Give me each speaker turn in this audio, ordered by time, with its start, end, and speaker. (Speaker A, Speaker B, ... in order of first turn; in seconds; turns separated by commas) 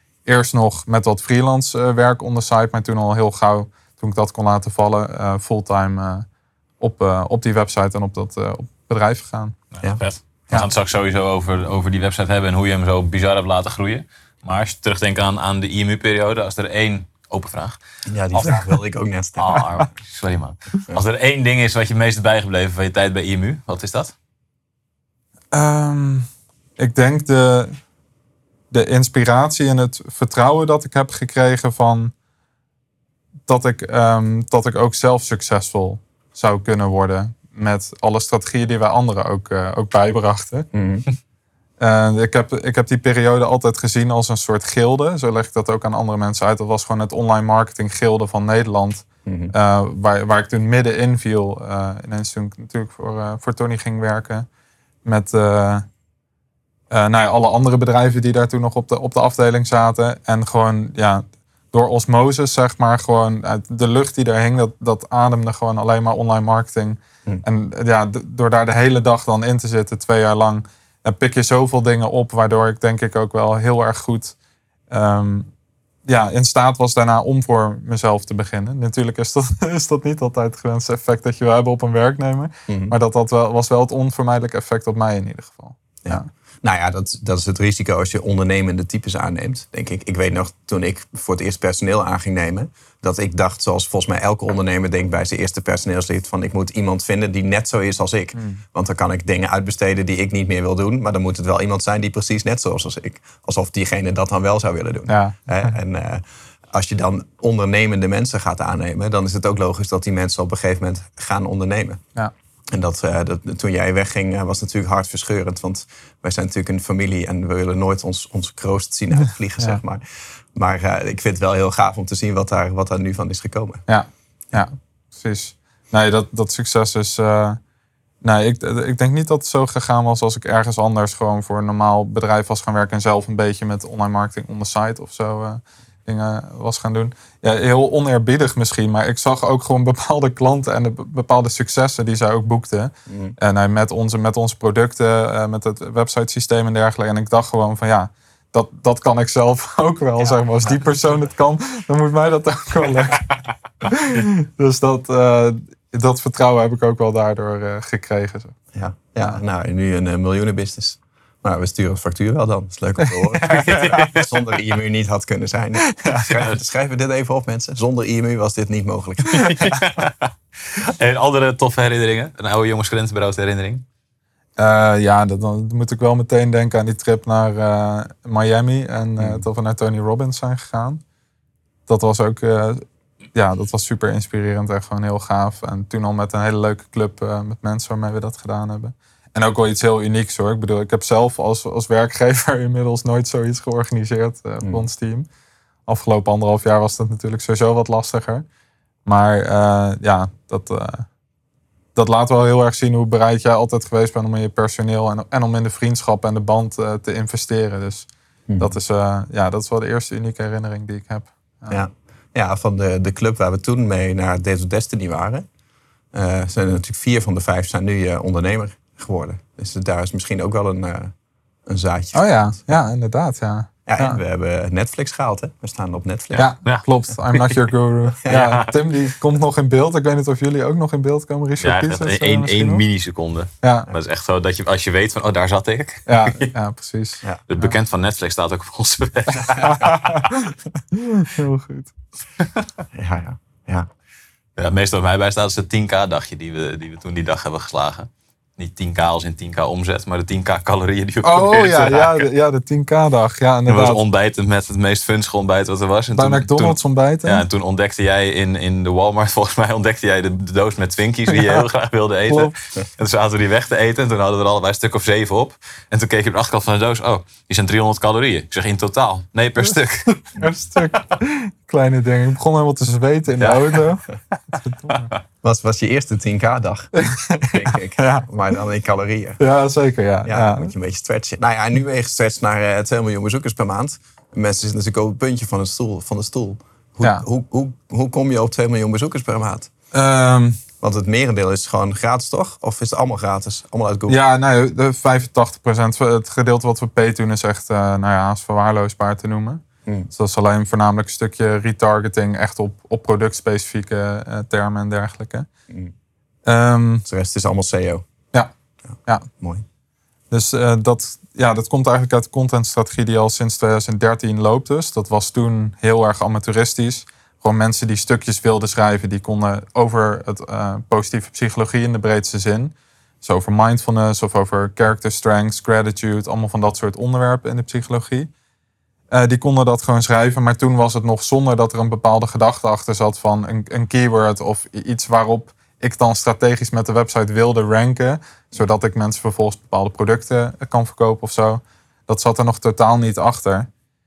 Speaker A: 0.3-6.3, Speaker A: 6.8-9.6, Speaker B: 9.7-17.8, Speaker C: 18.1-19.6, Speaker B: 18.3-18.6, Speaker B: 19.4-24.1, Speaker A: 25.5-27.8, Speaker A: 28.7-32.1, Speaker A: 33.5-40.7, Speaker C: 40.7-41.0, Speaker A: 41.8-54.5, Speaker C: 49.3-49.5, Speaker A: 55.0-55.9, Speaker A: 56.9-74.3, Speaker A: 74.9-75.5, Speaker A: 76.0-86.3, Speaker C: 82.7-82.9, Speaker C: 86.0-112.0, Speaker A: 98.3-98.6, Speaker A: 105.1-105.7, Speaker C: 112.7-123.8, Speaker A: 123.9-127.6, Speaker A: 128.2-153.3, Speaker C: 143.1-143.4, Speaker A: 153.8-158.6, Speaker C: 158.7-169.6, Speaker A: 163.3-164.1, Speaker B: 163.5-164.3, Speaker A: 165.8-166.3, Speaker B: 169.3-173.8, Speaker A: 174.6-181.0, Speaker C: 179.2-179.4, Speaker A: 181.9-195.3, Speaker A: 195.9-198.5, Speaker A: 199.1-201.1, Speaker A: 201.9-208.1, Speaker A: 208.6-211.8, Speaker C: 211.7-215.4, Speaker C: 216.1-221.1, Speaker C: 221.7-222.8, Speaker A: 222.1-224.2, Speaker C: 223.9-226.5, Speaker A: 226.4-232.8, Speaker B: 226.4-227.5, Speaker C: 228.2-228.6, Speaker B: 228.3-228.7, Speaker B: 231.6-236.5, Speaker A: 233.6-233.9, Speaker A: 236.1-237.7, Speaker B: 237.5-240.3, Speaker A: 239.6-241.9, Speaker C: 242.9-243.9, Speaker B: 244.6-252.3, Speaker A: 251.2-254.0, Speaker B: 253.7-270.2, Speaker A: 256.1-257.4, Speaker A: 261.3-261.6, Speaker A: 262.3-262.5, Speaker A: 270.3-275.1, Speaker B: 273.4-273.8, Speaker C: 275.4-279.4, Speaker A: 276.9-278.3, Speaker A: 279.4-280.7, Speaker C: 280.2-289.7, Speaker A: 289.9-290.6, Speaker C: 290.8-294.2, Speaker A: 294.1-305.5, Speaker A: 306.5-307.1, Speaker C: 307.1-308.0, Speaker C: 309.4-309.6, Speaker A: 310.3-328.3, Speaker A: 329.1-343.7